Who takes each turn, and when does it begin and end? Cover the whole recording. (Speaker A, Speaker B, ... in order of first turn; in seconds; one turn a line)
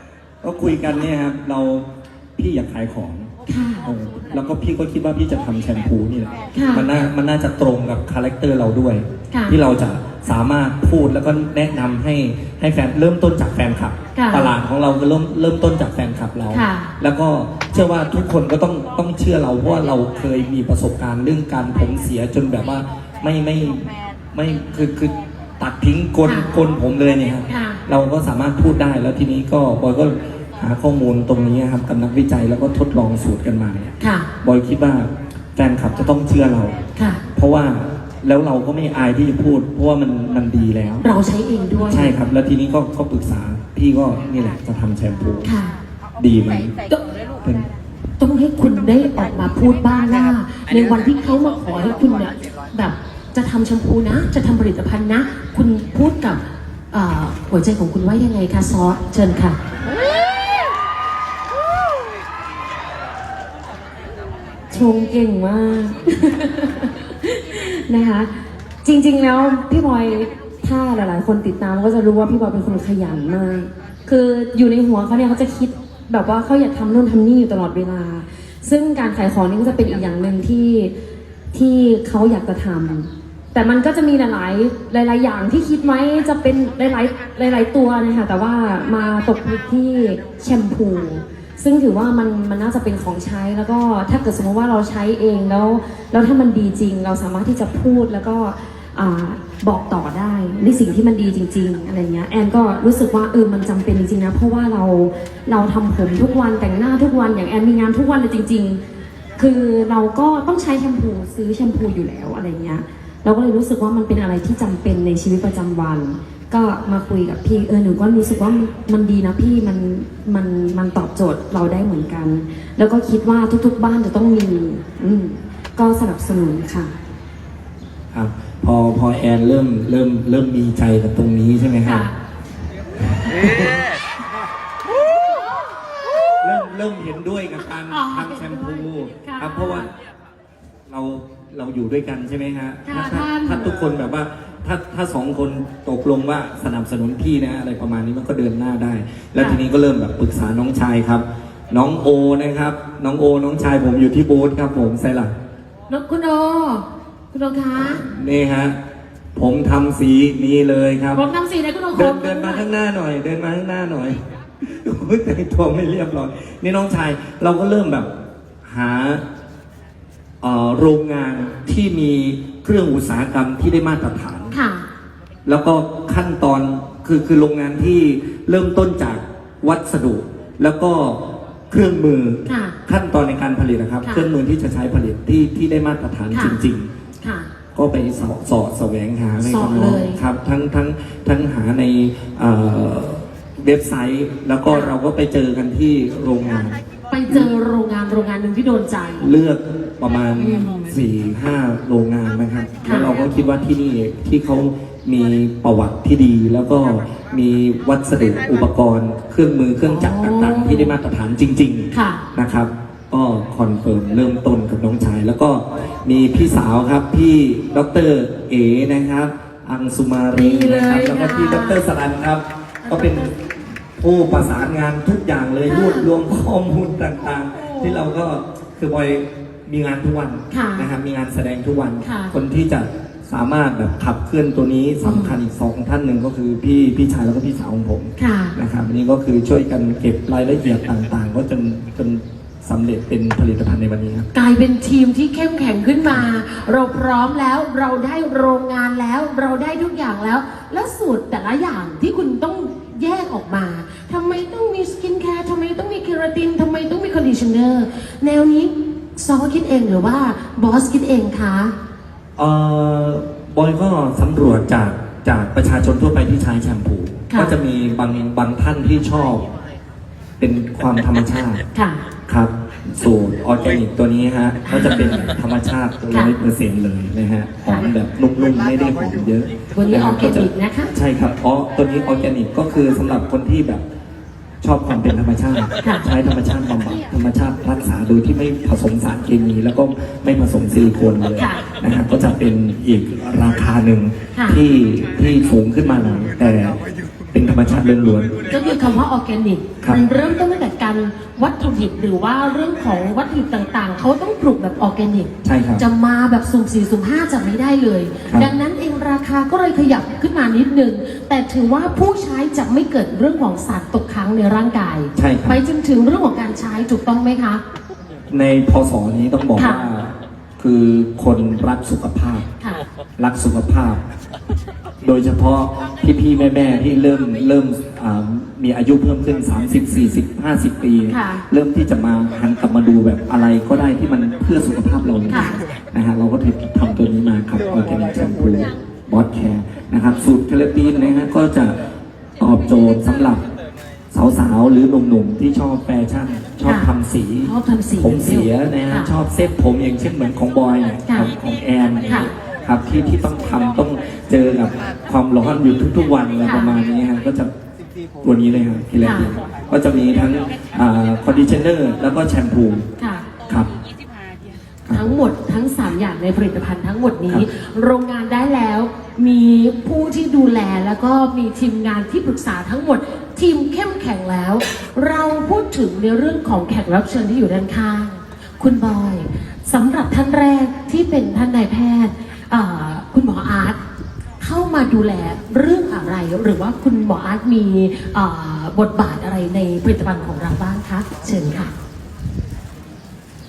Speaker A: 0.4-3.3
Speaker B: 3.5-3.9
Speaker A: 3.8-36.8
Speaker B: 6.5-6.9
Speaker B: 14.2-14.5
Speaker B: 16.5-16.9
Speaker B: 26.2-26.5
Speaker B: 27.5-27.8
Speaker B: 34.0-34.3
Speaker B: 37.0-37.2
Speaker A: 37.3-41.1
Speaker B: 41.0-42.1
Speaker A: 41.8-45.5
Speaker B: 45.4-45.7
Speaker A: 46.2-46.8
Speaker A: 47.4-47.7
Speaker B: 48.2-59.6
Speaker C: 64.7-80.9
Speaker C: 81.5-108.8
Speaker C: 109.4-126.9
Speaker A: 128.1-132.1
Speaker B: 131.8-132.1
Speaker A: 133.1-133.8
Speaker A: 136.4-139.9
Speaker B: 137.9-139.9
Speaker A: 140.9-155.3
Speaker B: 142.9-143.7
Speaker B: 155.9-158.1
Speaker A: 157.8-158.8
Speaker A: 159.3-161.2
Speaker B: 161.1-162.7
Speaker A: 161.9-168.1
Speaker A: 168.6-169.2
Speaker A: 170.4-174.6
Speaker B: 174.5-174.9
Speaker A: 175.5-186.9
Speaker B: 182.5-182.8
Speaker B: 184.0-184.3
Speaker B: 186.3-186.6
Speaker B: 187.2-187.5
Speaker A: 187.8-197.5
Speaker B: 189.4-190.2
Speaker B: 197.1-199.3
Speaker A: 199.2-223.4
Speaker B: 200.4-200.7
Speaker B: 202.8-203.1
Speaker B: 209.9-210.9
Speaker B: 211.9-212.2
Speaker B: 220.3-221.8
Speaker B: 222.8-223.3
Speaker A: 224.0-244.3
Speaker B: 225.7-226.1
Speaker B: 227.6-227.9
Speaker B: 230.5-230.9
Speaker B: 232.0-232.3
Speaker B: 235.0-235.3
Speaker B: 238.2-238.6
Speaker B: 244.3-261.8
Speaker A: 262.4-269.4
Speaker A: 270.4-271.6
Speaker B: 271.8-272.0
Speaker A: 272.3-283.8
Speaker B: 274.7-275.3
Speaker B: 279.7-280.9
Speaker A: 284.6-296.8
Speaker B: 291.4-291.6
Speaker B: 294.4-294.6
Speaker A: 297.3-298.4
Speaker B: 298.5-317.6
Speaker A: 305.4-305.9
Speaker A: 308.3-308.5
Speaker A: 315.1-315.6
Speaker A: 318.3-322.5
Speaker B: 319.6-319.9
Speaker A: 323.2-324.0
Speaker A: 325.0-341.8
Speaker B: 331.1-331.4
Speaker B: 335.3-335.6
Speaker A: 342.4-343.4
Speaker A: 344.1-357.5
Speaker B: 346.6-346.9
Speaker B: 347.4-349.1
Speaker B: 356.4-356.8
Speaker A: 358.2-362.9
Speaker B: 359.0-359.3
Speaker B: 363.0-363.3
Speaker A: 364.9-365.1
Speaker B: 364.9-383.8
Speaker B: 384.4-391.7